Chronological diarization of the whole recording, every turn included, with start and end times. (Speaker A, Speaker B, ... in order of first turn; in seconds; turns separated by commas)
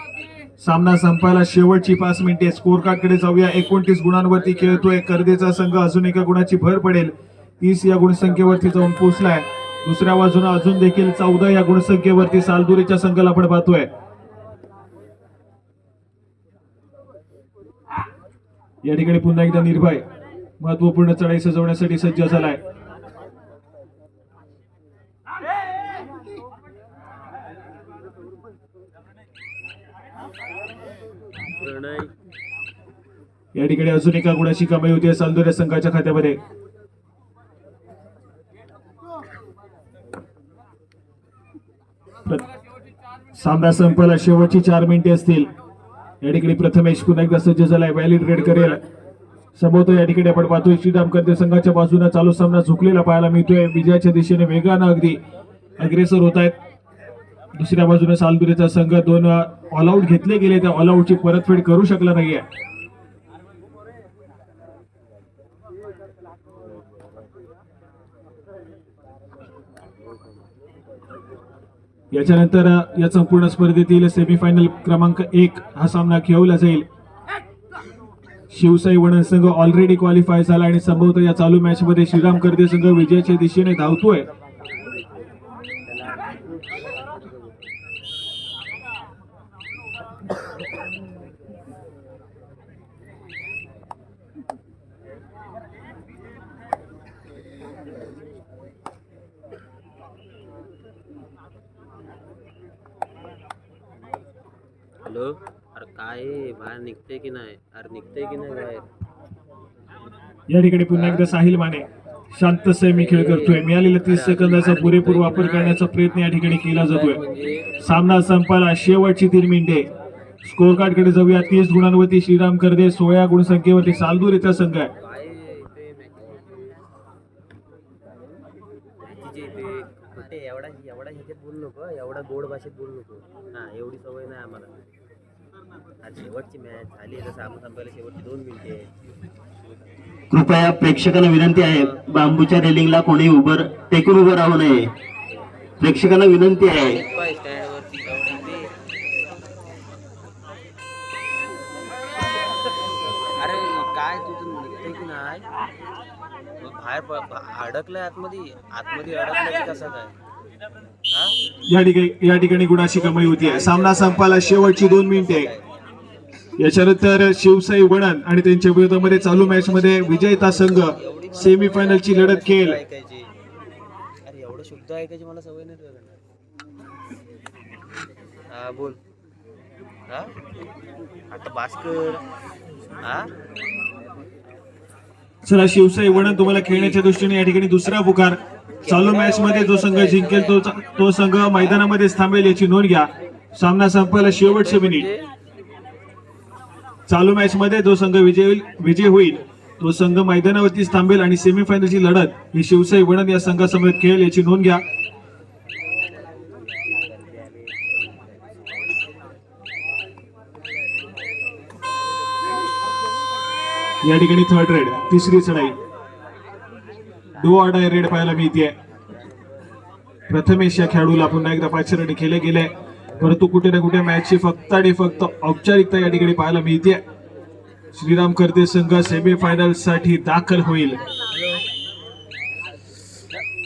Speaker A: 0.6-13.9, Speaker B: 4.3-4.9, Speaker B: 8.3-9.1, Speaker A: 18.9-20.1, Speaker A: 20.6-22.6, Speaker B: 31.6-32.1, Speaker A: 33.5-36.4, Speaker A: 43.4-45.5, Speaker A: 46.2-48.8, Speaker A: 49.6-55.2, Speaker A: 55.8-56.5, Speaker A: 57.6-62.5, Speaker A: 72.1-76.9, Speaker A: 78.5-84.3, Speaker B: 85.9-86.9, Speaker B: 105.0-108.9, Speaker A: 110.5-117.2, Speaker B: 112.9-115.8, Speaker B: 116.8-117.8, Speaker A: 117.8-119.9, Speaker A: 120.5-124.9, Speaker B: 125.0-126.8, Speaker B: 129.2-134.8, Speaker B: 136.0-138.9, Speaker C: 140.3-144.9, Speaker B: 141.6-142.0, Speaker C: 145.8-147.0, Speaker B: 146.7-148.7, Speaker B: 153.4-155.5, Speaker B: 156.6-160.1, Speaker B: 161.1-161.4, Speaker A: 161.7-165.5, Speaker B: 162.9-165.6, Speaker A: 166.6-172.8, Speaker B: 169.1-173.3, Speaker B: 174.2-176.2, Speaker B: 178.5-179.0, Speaker B: 181.3-182.2, Speaker B: 183.0-183.3, Speaker A: 185.5-195.1, Speaker B: 186.1-187.2, Speaker B: 188.8-190.6, Speaker B: 194.3-195.3, Speaker A: 197.1-204.8, Speaker B: 207.3-208.3, Speaker A: 214.0-215.8, Speaker A: 217.4-218.7, Speaker A: 220.3-227.0, Speaker A: 227.9-231.0